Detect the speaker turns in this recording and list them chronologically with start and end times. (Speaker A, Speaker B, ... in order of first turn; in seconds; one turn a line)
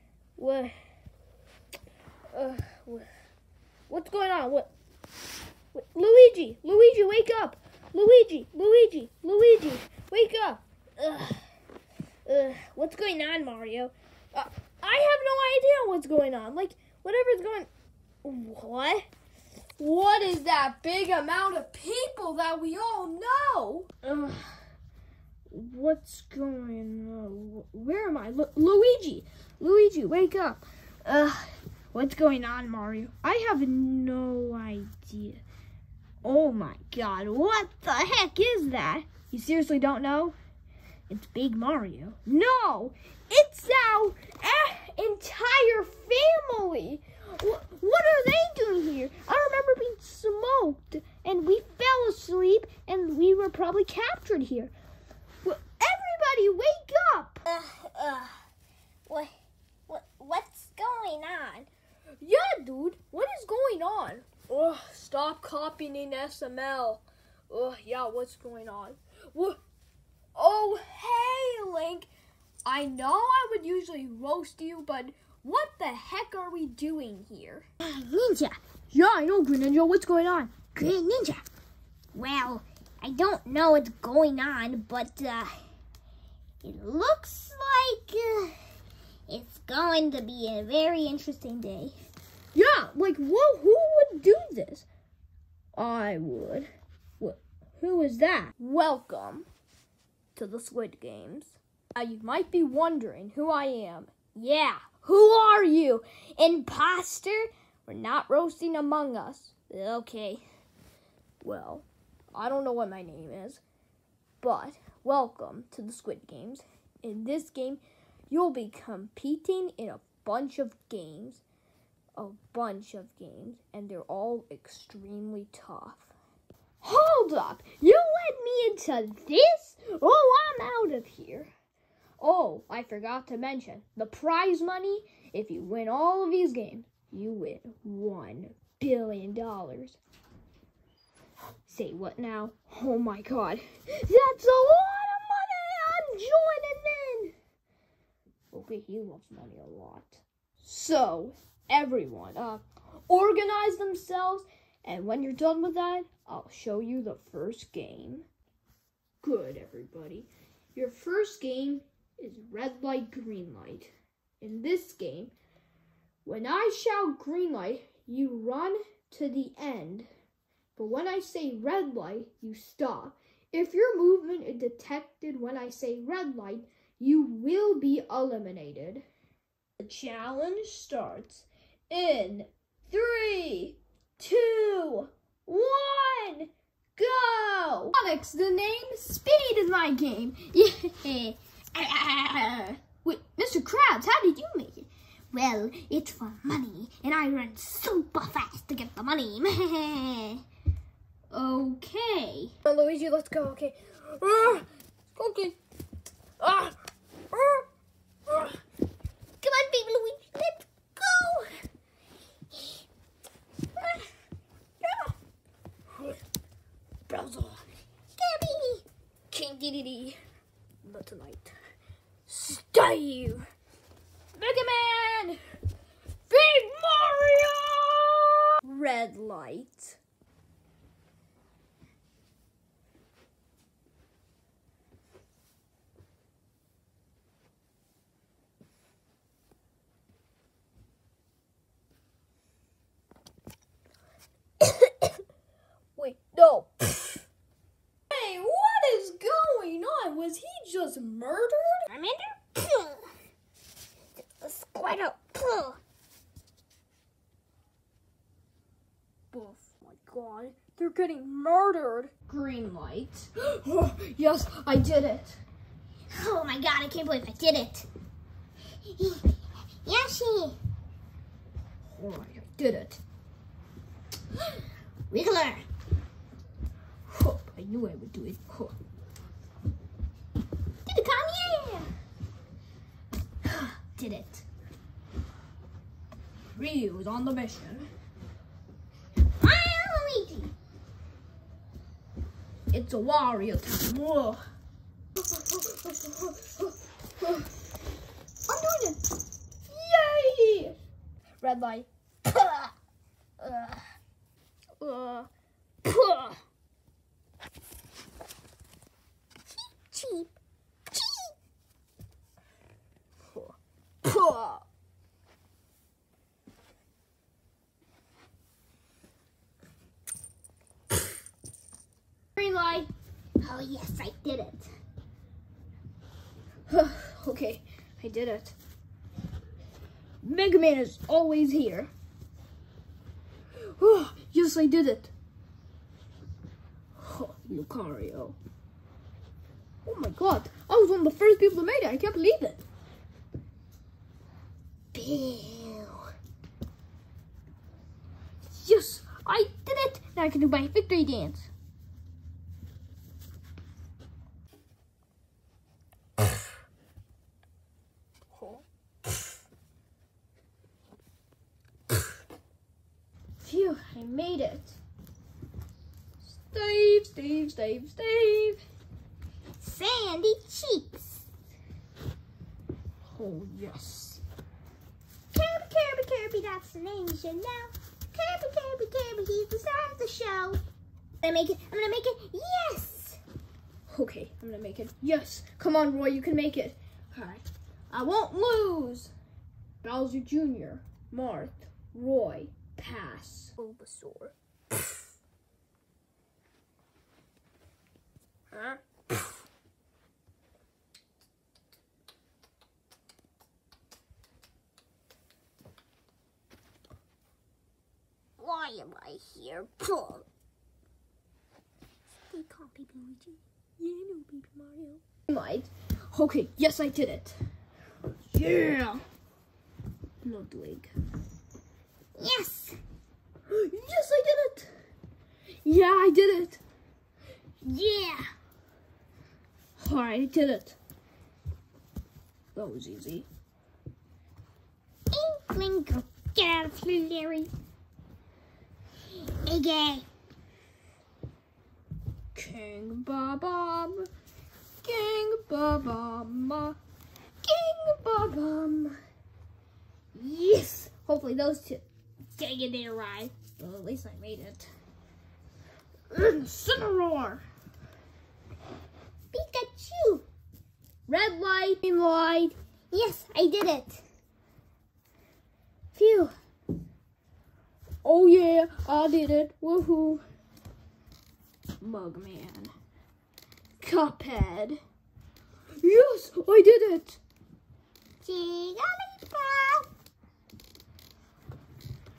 Speaker A: 0.3-0.7
Speaker A: 2.3-3.1
Speaker A: 3.9-4.7
Speaker A: 5.7-11.4
Speaker A: 12.2-17.7
Speaker A: 18.2-19.1
Speaker A: 19.8-24.6
Speaker A: 25.5-35.4
Speaker A: 36.2-40.3
Speaker A: 41.1-54.7
Speaker A: 55.4-58.2
Speaker B: 57.7-58.3
Speaker A: 59.9-61.7
Speaker B: 60.1-60.7
Speaker A: 62.2-69.6
Speaker A: 70.3-72.1
Speaker A: 72.6-81.3
Speaker B: 77.8-78.5
Speaker B: 81.1-81.4
Speaker A: 82.1-85.5
Speaker B: 82.2-85.5
Speaker B: 86.6-88.6
Speaker A: 86.7-87.3
Speaker B: 89.3-91.9
Speaker A: 89.3-91.9
Speaker A: 92.5-94.9
Speaker A: 95.8-96.7
Speaker A: 97.2-99.5
Speaker A: 100.3-110.4
Speaker A: 111.4-113.6
Speaker A: 114.4-121.4
Speaker A: 122.2-126.1
Speaker A: 126.8-131.5
Speaker A: 132.2-140.0
Speaker A: 141.7-147.3
Speaker A: 148.5-158.3
Speaker A: 159.2-165.3
Speaker A: 166.2-170.1
Speaker A: 170.8-179.0
Speaker A: 179.8-199.3
Speaker B: 199.0-200.4
Speaker A: 201.3-205.6
Speaker A: 206.4-206.8
Speaker A: 207.3-207.7
Speaker A: 208.3-208.6
Speaker B: 209.4-210.6
Speaker A: 209.4-211.5
Speaker A: 213.8-214.0
Speaker A: 214.8-215.1
Speaker A: 217.1-217.7
Speaker B: 218.2-218.8
Speaker A: 219.3-220.2
Speaker A: 220.8-221.6
Speaker A: 222.3-223.4
Speaker A: 224.3-225.4
Speaker A: 226.3-230.0
Speaker A: 244.6-245.1
Speaker A: 245.9-247.2
Speaker A: 248.1-251.9
Speaker B: 251.9-253.1
Speaker B: 254.4-255.8
Speaker A: 259.3-265.4
Speaker B: 266.1-267.9
Speaker B: 268.9-269.3
Speaker B: 269.8-270.6
Speaker A: 271.8-273.0
Speaker B: 275.1-275.6
Speaker A: 277.1-278.7
Speaker B: 280.9-281.9
Speaker A: 283.4-284.4
Speaker A: 286.5-287.9
Speaker B: 289.4-290.5
Speaker A: 292.7-294.4
Speaker A: 295.2-297.5
Speaker A: 298.5-299.0
Speaker A: 299.6-300.8
Speaker A: 301.4-302.7
Speaker A: 303.4-303.8
Speaker A: 304.8-305.3
Speaker A: 305.8-306.4
Speaker B: 309.7-310.3
Speaker A: 313.3-314.6
Speaker A: 322.4-322.9
Speaker B: 323.4-324.7
Speaker A: 326.7-328.6
Speaker A: 330.2-331.9
Speaker A: 333.6-335.1
Speaker A: 336.9-338.4
Speaker A: 339.8-342.6
Speaker A: 344.9-346.1
Speaker A: 348.4-351.5
Speaker A: 358.4-358.6
Speaker A: 363.4-364.8
Speaker A: 366.2-368.6
Speaker B: 369.6-371.2
Speaker A: 373.1-374.2
Speaker B: 375.3-380.6
Speaker B: 381.2-383.2
Speaker A: 383.9-389.1
Speaker A: 389.8-394.3
Speaker A: 398.5-399.2
Speaker B: 408.4-410.2
Speaker A: 408.5-410.2
Speaker A: 412.3-417.4
Speaker B: 412.5-413.4
Speaker A: 418.3-419.0
Speaker A: 420.2-420.9
Speaker B: 422.1-422.8
Speaker A: 423.5-424.7
Speaker A: 425.6-426.6
Speaker A: 427.7-428.1
Speaker B: 427.7-428.2
Speaker A: 429.8-430.8
Speaker A: 432.5-433.3
Speaker B: 435.1-437.5
Speaker B: 439.4-440.0
Speaker A: 442.3-444.1
Speaker A: 444.8-446.8
Speaker A: 447.4-449.0
Speaker A: 450.1-451.8
Speaker A: 452.4-454.7
Speaker A: 456.1-457.4
Speaker B: 459.3-460.2
Speaker A: 461.1-462.5
Speaker B: 462.9-464.0
Speaker A: 465.9-466.3
Speaker A: 468.0-470.2
Speaker A: 471.8-472.7
Speaker A: 473.8-474.8
Speaker A: 475.8-477.2
Speaker B: 478.2-479.9